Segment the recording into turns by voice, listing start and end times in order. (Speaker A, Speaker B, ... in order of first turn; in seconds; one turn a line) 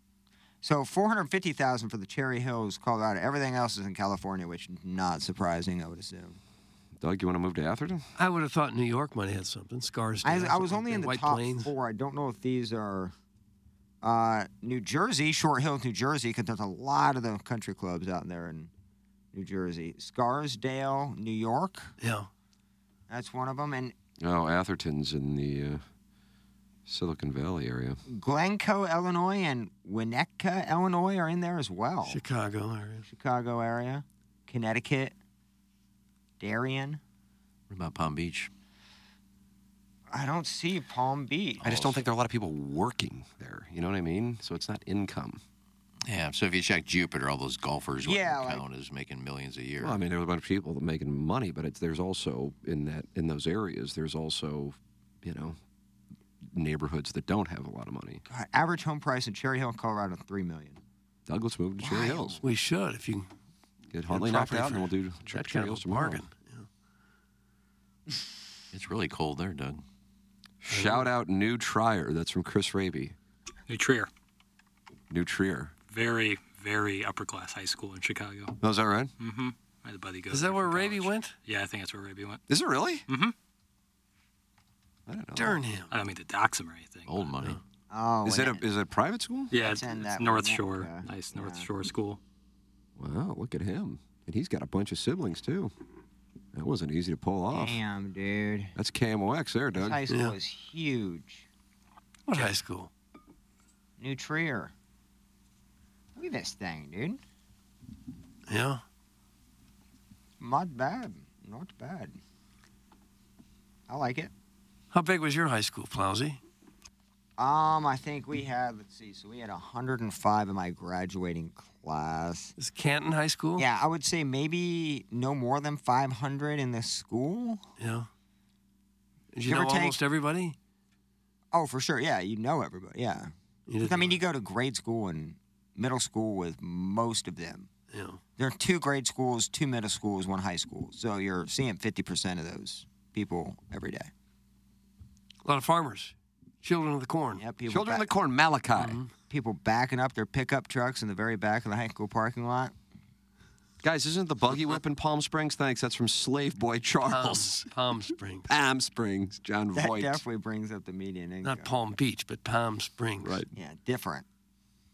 Speaker A: 0.6-6.4
Speaker B: 7.0-8.0
Speaker C: 8.2-11.7
Speaker A: 10.2-13.1
Speaker A: 14.0-18.7
Speaker A: 19.3-21.9
Speaker C: 22.0-22.3
Speaker A: 23.1-23.9
Speaker B: 24.2-25.8
Speaker B: 26.9-28.0
Speaker A: 28.1-32.2
Speaker C: 32.0-33.0
Speaker A: 33.1-35.1
Speaker A: 36.4-37.0
Speaker D: 37.7-38.5
Speaker A: 40.1-42.0
Speaker B: 41.6-45.4
Speaker D: 46.0-50.0
Speaker A: 48.0-48.6
Speaker B: 49.8-55.6
Speaker B: 56.5-58.2
Speaker A: 58.3-60.8
Speaker B: 61.3-62.4
Speaker A: 61.8-62.4
Speaker C: 62.4-63.3
Speaker B: 63.9-66.2
Speaker C: 64.1-66.7
Speaker D: 68.7-69.8
Speaker B: 70.6-73.1
Speaker C: 70.7-71.1
Speaker E: 73.7-74.1
Speaker B: 75.1-75.7
Speaker E: 75.9-78.6
Speaker B: 78.6-79.1
Speaker E: 79.2-82.4
Speaker C: 80.3-81.3
Speaker B: 82.5-83.0
Speaker E: 83.1-83.3
Speaker B: 85.1-85.6
Speaker C: 85.3-85.9
Speaker E: 85.9-87.3
Speaker D: 87.1-87.6
Speaker A: 87.9-88.6
Speaker B: 88.2-89.5
Speaker E: 89.5-92.2
Speaker A: 89.5-91.7
Speaker B: 93.0-95.7
Speaker B: 96.5-97.8
Speaker A: 97.5-98.7
Speaker B: 98.8-100.0
Speaker A: 99.7-101.5
Speaker C: 100.1-100.3
Speaker C: 102.3-102.9
Speaker A: 104.0-104.7
Speaker A: 106.2-107.2
Speaker C: 108.5-108.8
Speaker A: 110.4-112.2
Speaker A: 113.9-114.3
Speaker C: 114.9-116.4
Speaker A: 117.4-122.5
Speaker C: 122.6-123.7
Speaker A: 123.6-127.6
Speaker C: 127.8-128.1
Speaker C: 129.3-130.6
Speaker A: 129.4-130.0
Speaker A: 131.5-137.7
Speaker C: 133.7-134.2
Speaker C: 137.9-138.2
Speaker A: 138.4-144.1
Speaker C: 145.4-147.4
Speaker A: 147.3-148.1
Speaker B: 147.7-149.0
Speaker C: 148.8-149.1
Speaker A: 149.3-152.7
Speaker B: 153.8-157.5
Speaker C: 157.1-158.5
Speaker B: 158.5-160.2
Speaker A: 159.7-161.7
Speaker C: 161.4-163.4
Speaker B: 163.2-163.5
Speaker A: 163.5-164.2